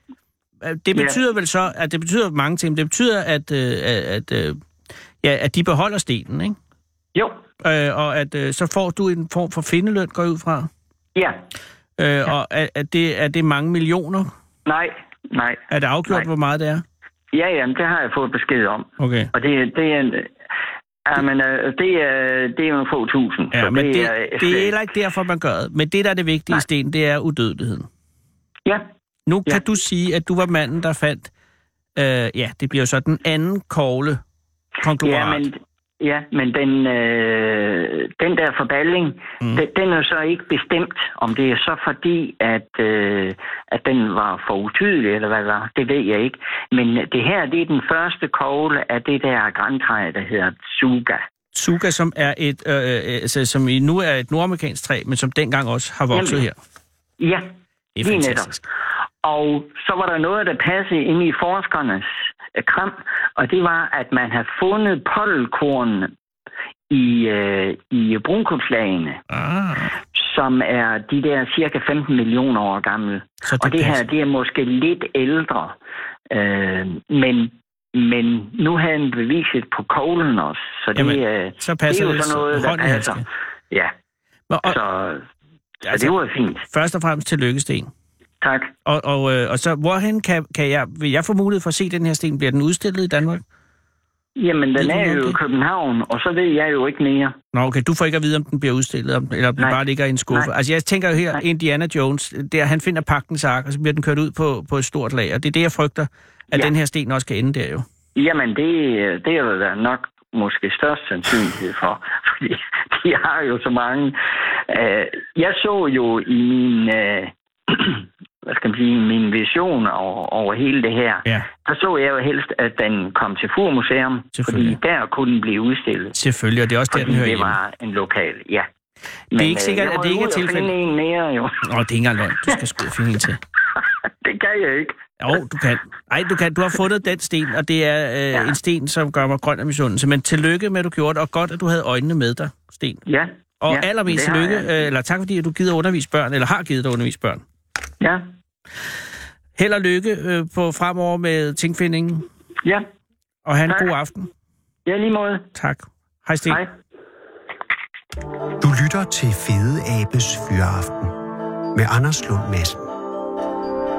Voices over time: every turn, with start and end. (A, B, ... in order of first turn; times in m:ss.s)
0:00.6-0:04.6 A
0:05.2-0:06.6 A
0:07.1-0:07.4 B
0:07.6-0:10.7 A
0:12.0-0:14.3 A
0:14.6-0:16.2 B
0:15.7-0:16.8 A
0:17.3-0:20.3 B
0:19.0-0:19.3 A
0:21.0-0:24.7 B
0:23.5-0:27.9 A
0:29.3-0:31.3 A
0:32.0-0:34.2 A
0:34.8-0:35.4 A
0:35.0-0:51.2 B
0:51.5-0:56.6 A
0:56.1-0:56.4 B
0:57.2-0:57.5 B
0:58.0-0:58.6 A
0:58.0-0:58.6 B
0:59.2-1:06.1 B
1:06.9-1:09.2 B
1:09.3-1:10.0 A
1:10.1-1:15.8 B
1:13.4-1:14.0 A
1:16.3-1:23.9 B
1:20.9-1:23.2 A
1:24.5-1:24.8 A
1:24.6-1:25.2 B
1:25.8-1:26.6 B
1:25.8-1:26.1 A
1:26.7-1:27.9 A
1:28.4-1:28.7 B
1:28.8-1:33.4 A
1:34.4-1:37.3 B
1:34.8-1:35.4 A
1:37.5-1:47.8 A
1:39.6-1:40.5 B
1:48.1-1:54.2 B
1:54.7-2:06.1 B
2:04.3-2:04.8 A
2:06.1-2:07.6 A
2:06.9-2:08.7 B
2:09.3-2:11.6 B
2:09.3-2:10.7 A
2:11.6-2:13.4 A
2:14.0-2:15.0 B
2:15.2-2:23.0 A
2:23.1-2:24.7 B
2:23.6-2:27.4 A
2:29.6-2:32.3 A
2:33.4-2:34.3 A
2:34.8-2:35.5 B
2:35.5-2:36.6 A
2:38.6-2:41.1 C
2:41.7-2:42.8 C